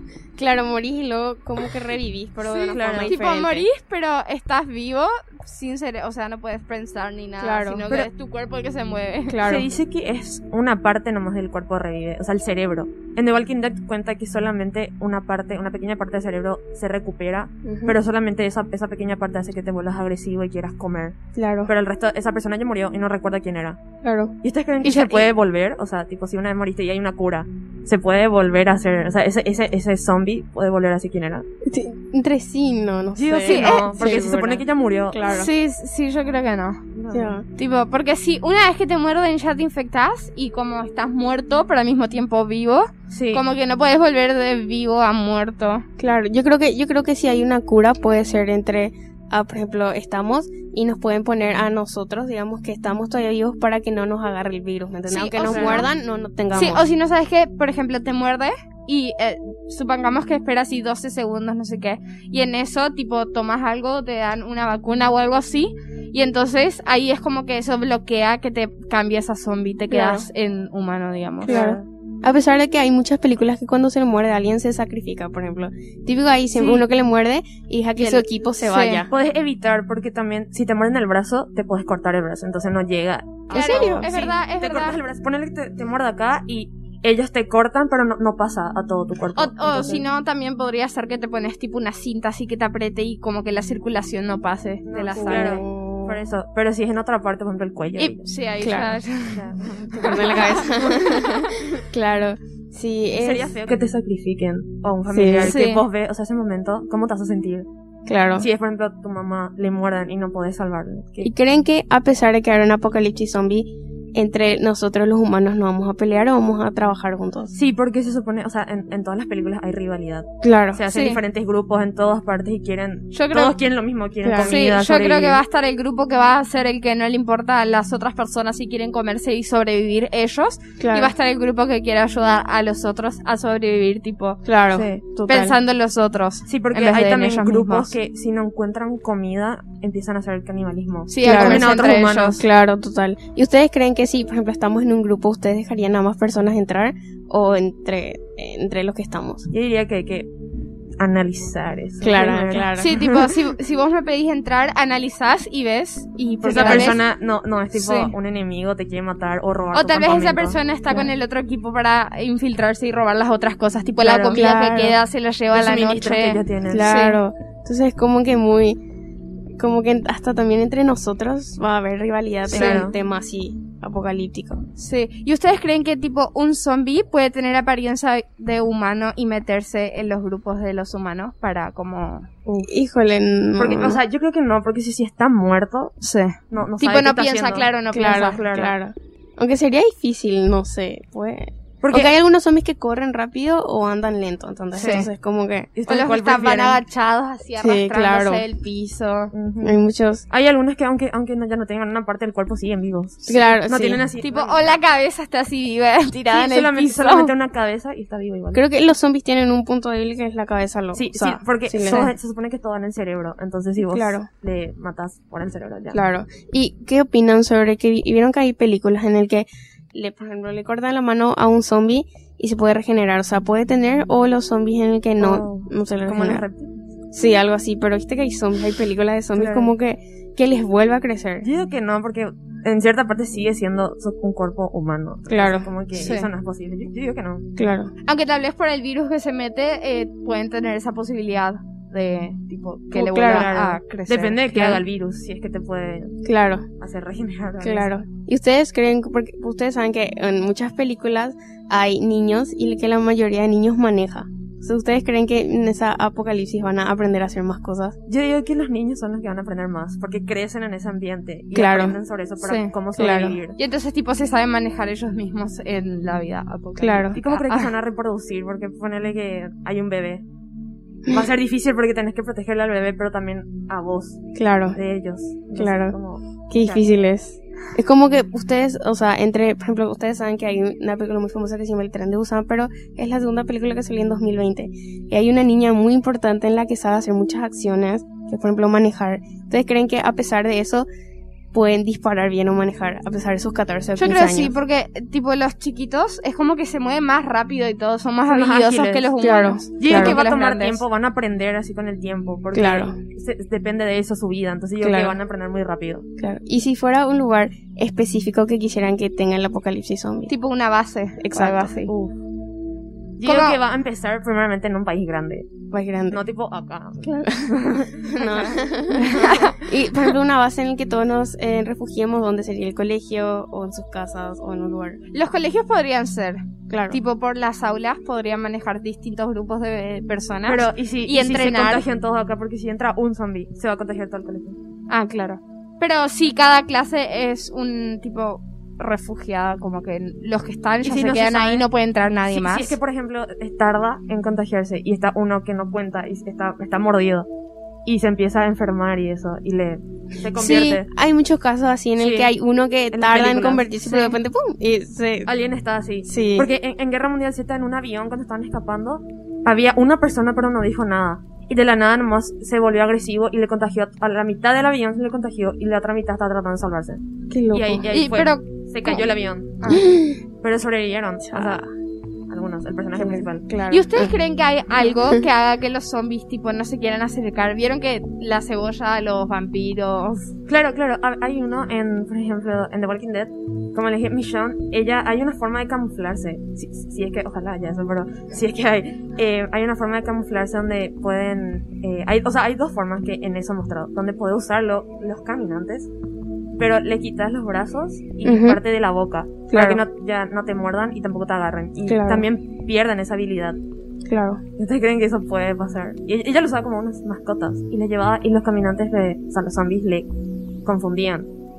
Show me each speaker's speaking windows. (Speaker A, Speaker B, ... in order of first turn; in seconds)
Speaker A: 0.3-3.7, 7.4-7.8, 9.2-9.7, 17.6-18.0, 21.4-21.7, 24.0-24.3, 31.6-35.5, 37.1-37.5, 46.0-56.9, 69.9-70.3, 71.4-79.1, 83.5-84.1, 95.1-96.2, 98.6-99.0, 99.9-103.8, 105.1-105.5, 108.0-108.5, 111.2-117.5, 120.4-120.8, 124.2-124.5, 130.8-131.1, 134.4-135.6, 141.2-149.5, 152.0-152.9, 156.4-157.0, 164.3-165.0, 166.7-168.8, 169.6-174.6, 182.6-184.0, 187.9-195.7, 197.6-198.4, 199.6-200.2, 203.3-204.1, 208.5-212.1, 213.8-214.3, 215.9-226.4, 227.1-231.5, 235.3-235.7, 237.6-237.9, 242.9-243.5, 246.2-246.7, 247.6-257.9, 261.5-262.0, 262.9-263.4, 266.8-267.2, 274.3-274.8, 275.5-275.9, 276.5-290.9, 291.5-294.5, 299.2-300.2, 302.5-302.9, 304.8-305.2, 306.2-310.3, 311.2-311.8, 315.7-316.2, 317.1-325.0, 326.7-327.0, 350.3-355.3, 356.0-356.5, 367.3-367.9, 369.7-370.2, 371.3-371.6, 372.9-374.1, 398.2-398.6, 399.5-399.8, 401.9-402.3, 404.1-404.4
Speaker B: 2.4-9.4, 24.8-25.3, 33.5-34.2, 35.3-36.8, 37.5-45.8, 55.1-55.9, 56.5-71.7, 76.5-76.8, 78.0-79.0, 83.5-85.0, 89.3-95.6, 98.0-101.7, 105.4-105.8, 120.9-121.2, 123.1-123.5, 124.4-134.4, 135.3-137.9, 141.1-142.4, 152.8-157.0, 157.7-158.1, 159.7-167.2, 172.5-172.8, 174.8-182.3, 186.0-188.4, 194.7-195.1, 195.9-199.3, 204.2-207.3, 235.9-236.3, 238.0-244.8, 262.4-262.7, 263.6-267.7, 294.0-300.8, 310.3-311.9, 313.2-313.6, 319.1-319.6, 325.1-331.9, 334.9-342.8, 367.9-369.0, 373.7-380.3
Speaker C: 2.7-3.2, 9.4-23.8, 24.4-31.4, 33.1-35.2, 36.9-37.4, 43.1-43.4, 55.4-55.9, 71.4-71.8, 79.1-90.0, 94.8-98.2, 99.3-100.9, 103.2-107.7, 108.4-111.3, 117.5-125.4, 134.7-135.0, 136.4-142.4, 149.5-150.3, 151.0-153.4, 156.4-160.6, 164.0-164.5, 165.5-166.8, 172.5-172.9, 183.6-185.9, 186.5-188.8, 191.8-192.2, 195.7-196.8, 199.3-204.8, 206.3-208.6, 210.9-216.0, 225.2-226.7, 229.3-229.7, 231.4-237.4, 243.1-246.2, 246.8-247.9, 258.1-263.6, 267.1-270.2, 271.1-274.2, 274.7-276.9, 298.3-299.1, 299.8-306.1, 311.9-312.1, 313.2-315.5, 316.1-318.6, 330.4-334.6, 340.8-341.6, 342.3-347.3, 347.9-350.9, 352.0-352.3, 352.9-354.2, 355.2-369.8, 370.4-371.7, 372.3-373.5, 380.5-395.9, 396.6-403.6, 404.6-410.1, 410.6-411.3